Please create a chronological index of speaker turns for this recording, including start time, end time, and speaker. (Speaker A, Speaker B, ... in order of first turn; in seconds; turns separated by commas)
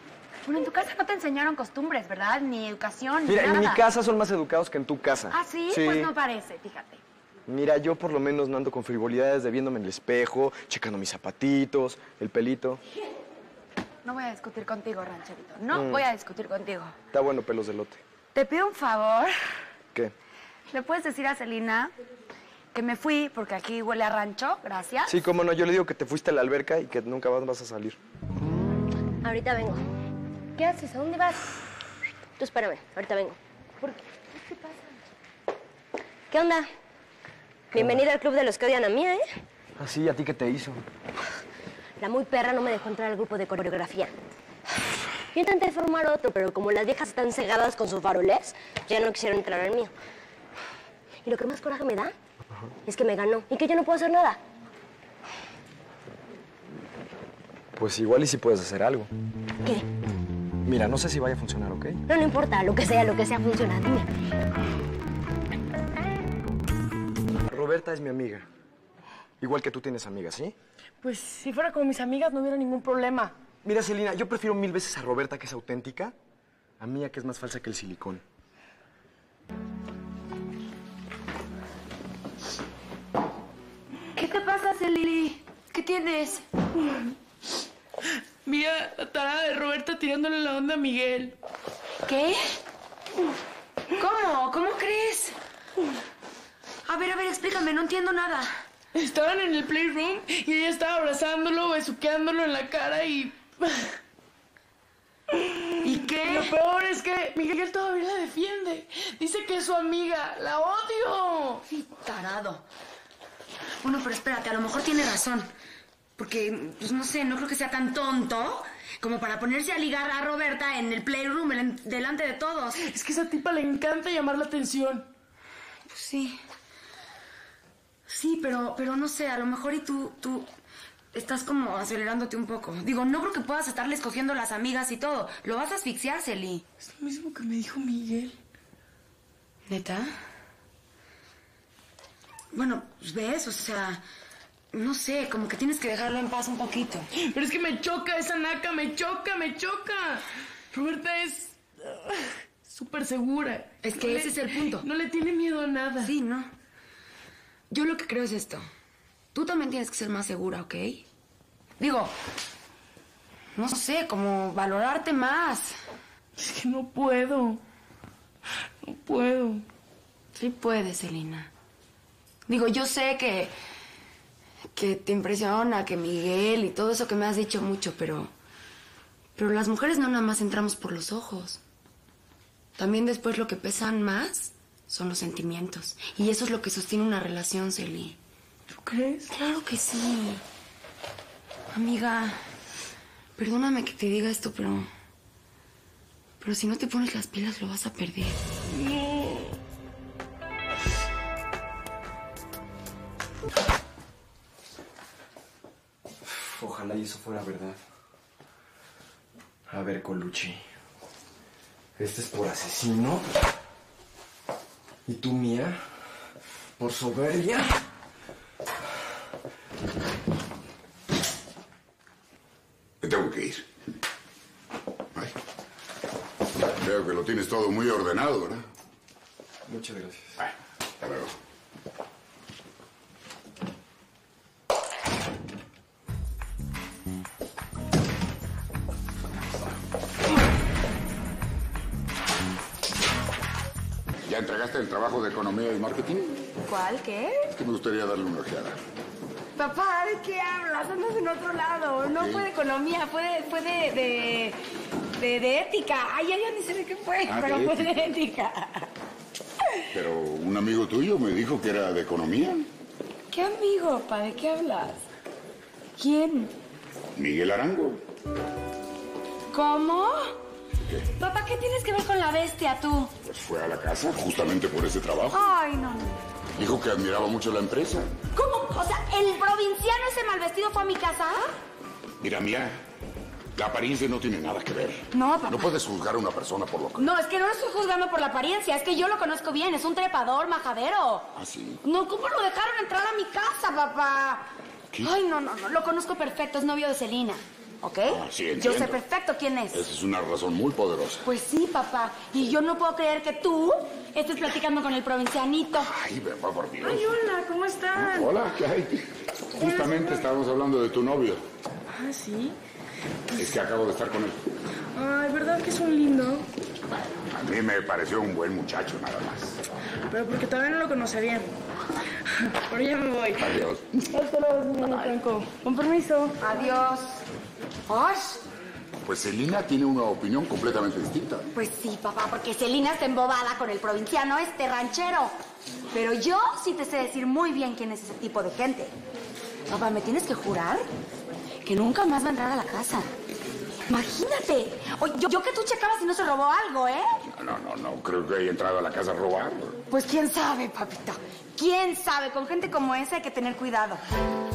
Speaker A: 0.4-3.9, Speaker B: 3.2-6.1, Speaker A: 5.3-7.0, Speaker B: 7.5-12.8, Speaker A: 14.0-16.9, Speaker B: 15.7-16.1, Speaker B: 17.1-18.0, Speaker A: 18.3-19.4, Speaker A: 20.7-21.9, Speaker A: 22.7-25.2, Speaker B: 25.1-28.0, Speaker C: 29.2-29.8, Speaker C: 30.6-31.4, Speaker C: 32.4-34.0, Speaker C: 36.3-36.7, Speaker C: 37.7-39.3, Speaker B: 37.8-38.1, Speaker B: 39.8-40.8, Speaker C: 42.0-44.1, Speaker C: 45.3-49.9, Speaker C: 51.2-52.1, Speaker C: 52.9-54.4, Speaker B: 57.8-59.1, Speaker B: 60.6-62.0, Speaker C: 62.1-64.1, Speaker B: 67.3-68.5, Speaker B: 69.4-70.5, Speaker D: 71.0-73.3, Speaker B: 73.6-76.2, Speaker B: 76.8-78.2, Speaker A: 84.1-86.5, Speaker D: 88.5-91.4, Speaker A: 92.0-92.4, Speaker A: 94.0-95.4, Speaker A: 96.9-98.5, Speaker D: 98.9-104.0, Speaker D: 105.3-111.6, Speaker A: 105.8-106.5, Speaker A: 111.7-112.6, Speaker A: 113.8-115.5, Speaker A: 116.2-122.8, Speaker D: 122.8-125.1, Speaker A: 125.9-126.4, Speaker A: 128.1-130.5, Speaker A: 131.1-136.7, Speaker D: 136.8-138.4, Speaker A: 139.7-140.1, Speaker A: 142.5-144.0, Speaker A: 144.7-147.1, Speaker D: 147.2-156.1, Speaker A: 153.8-154.9, Speaker A: 156.0-156.5, Speaker A: 157.7-158.7, Speaker A: 159.3-161.1, Speaker A: 161.8-162.1, Speaker A: 163.6-165.7, Speaker D: 166.4-167.6, Speaker D: 168.8-169.7, Speaker A: 170.3-171.5, Speaker A: 172.5-173.5, Speaker A: 174.8-178.3, Speaker A: 179.4-181.6, Speaker A: 182.8-188.2, Speaker D: 188.7-189.3, Speaker A: 189.3-190.4, Speaker A: 191.7-192.4, Speaker A: 193.4-194.9, Speaker A: 196.4-198.4, Speaker D: 198.7-199.6, Speaker B: 206.2-207.8, Speaker B: 209.7-210.6, Speaker B: 212.0-213.3, Speaker B: 215.1-215.8, Speaker B: 216.8-217.8, Speaker E: 223.0-223.7, Speaker E: 226.6-228.6, Speaker B: 229.7-230.4, Speaker E: 230.4-231.3, Speaker E: 244.3-246.5, Speaker A: 246.7-247.5, Speaker E: 247.5-248.8, Speaker A: 249.6-254.6, Speaker E: 252.2-252.5, Speaker A: 255.2-258.9, Speaker E: 257.3-257.9, Speaker E: 259.9-262.7, Speaker A: 263.3-265.1, Speaker A: 266.0-266.5, Speaker E: 267.2-268.0, Speaker A: 269.5-270.4, Speaker A: 271.2-273.1, Speaker E: 273.3-275.5, Speaker A: 275.3-276.2, Speaker E: 276.6-278.1, Speaker A: 278.3-281.5, Speaker E: 282.2-282.8, Speaker E: 283.6-287.1, Speaker A: 285.1-285.8, Speaker A: 287.0-291.3, Speaker E: 291.4-291.8, Speaker A: 291.8-294.5, Speaker A: 295.0-299.9, Speaker E: 298.1-299.0, Speaker E: 299.7-301.2, Speaker A: 301.2-305.9, Speaker E: 305.9-307.2, Speaker D: 306.8-308.4, Speaker E: 307.9-311.4, Speaker D: 309.6-310.3, Speaker D: 311.9-312.6, Speaker D: 313.3-313.6, Speaker E: 313.4-314.4, Speaker D: 314.9-316.5, Speaker E: 317.1-319.6, Speaker D: 320.1-321.6, Speaker D: 322.3-323.6, Speaker E: 323.4-324.1, Speaker D: 324.1-326.4, Speaker A: 324.8-325.2, Speaker A: 326.4-327.2, Speaker A: 327.9-328.4, Speaker E: 329.1-331.5, Speaker A: 331.5-335.3, Speaker A: 335.9-338.9, Speaker A: 339.7-340.9, Speaker A: 341.6-343.1, Speaker A: 343.9-347.1, Speaker E: 347.4-349.8, Speaker A: 349.9-354.0